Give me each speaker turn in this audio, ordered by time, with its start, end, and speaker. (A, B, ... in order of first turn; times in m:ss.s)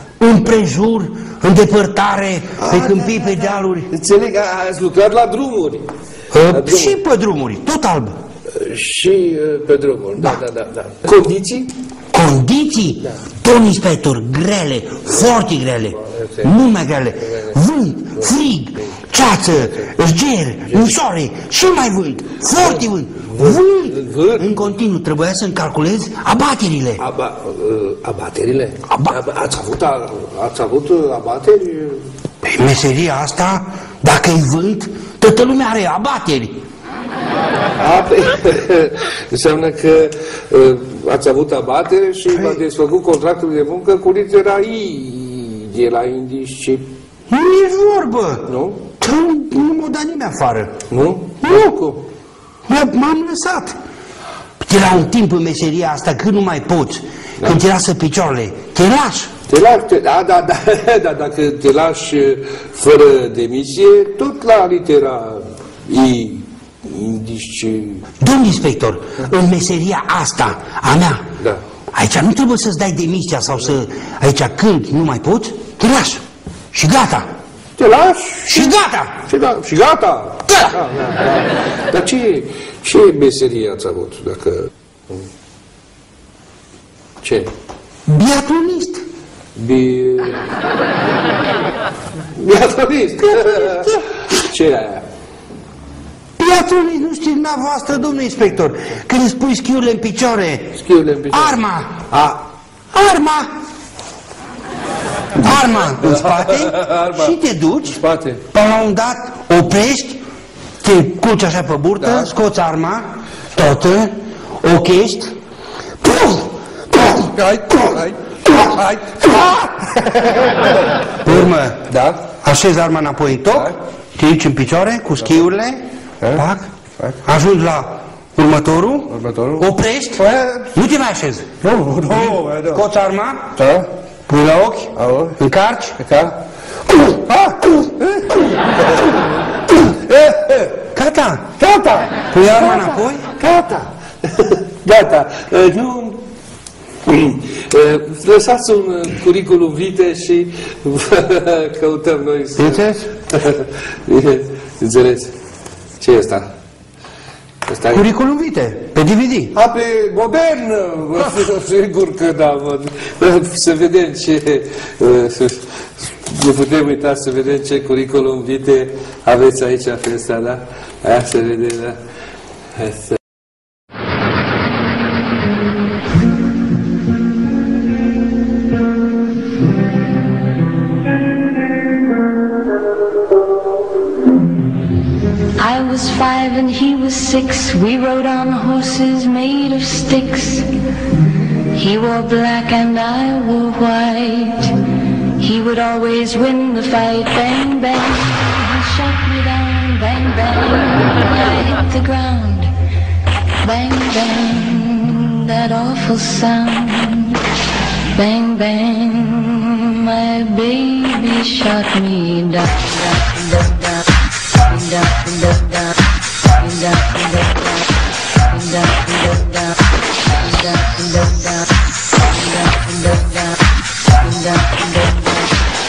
0:00.2-0:03.9 A
0:02.6-0:05.9 B
0:06.3-0:08.2 A
0:06.5-0:07.0 B
0:08.5-0:11.7 B
0:12.1-0:27.0 A
0:16.1-0:16.5 B
0:17.2-0:17.6 B
0:19.5-0:19.9 B
0:20.6-0:20.9 B
0:22.6-0:24.6 B
0:27.0-0:32.0 B
0:28.8-0:29.2 A
0:32.4-0:36.6 A
0:37.8-0:46.9 B
0:47.3-0:48.5 A
0:48.5-0:48.8 B
0:49.0-0:50.8 A
0:50.9-0:52.0 B
0:51.4-0:51.8 A
0:52.7-0:53.8 A
0:54.6-0:59.3 A
0:59.5-1:08.1 B
1:08.2-1:11.2 A
1:11.9-1:17.3 A
1:17.8-1:18.7 B
1:18.5-1:19.2 A
1:19.3-1:25.2 B
1:20.5-1:20.8 A
1:27.2-1:27.5 B
1:28.1-1:29.0 A
1:29.6-1:30.5 B
1:32.3-1:35.0 B
1:33.2-1:34.2 A
1:36.4-1:40.8 A
1:40.8-1:41.6 B
1:41.3-1:43.5 A
1:45.4-1:48.0 A
1:46.0-1:48.4 B
1:48.5-1:50.2 A
1:50.8-1:55.4 A
1:52.0-1:52.3 B
1:56.0-1:57.2 A
1:57.0-1:59.3 B
1:58.5-1:59.7 A
2:00.0-2:02.3 B
2:01.2-2:13.6 A
2:09.2-2:09.6 B
2:10.2-2:10.8 B
2:11.6-2:12.8 B
2:13.6-2:13.9 B
2:14.3-2:16.0 A
2:14.8-2:15.4 B
2:16.0-2:19.2 B
2:19.7-2:20.8 B
2:20.9-2:21.6 A
2:21.6-2:26.2 B
2:22.3-2:23.3 A
2:27.1-2:35.3 B
2:32.6-2:33.1 A
2:36.0-2:36.5 B
2:37.7-2:38.0 B
2:37.9-2:39.6 A
2:39.5-2:52.0 B
2:52.7-2:53.2 B
3:05.6-3:10.7 C
3:11.7-3:14.8 C
3:15.4-3:22.7 C
3:23.6-3:27.4 C
3:28.1-3:34.0 C
3:34.7-3:36.0 C
3:36.6-3:37.9 C
3:38.5-3:39.8 C
3:40.4-3:41.6 C
3:42.2-3:43.6 C
3:44.2-3:45.5 C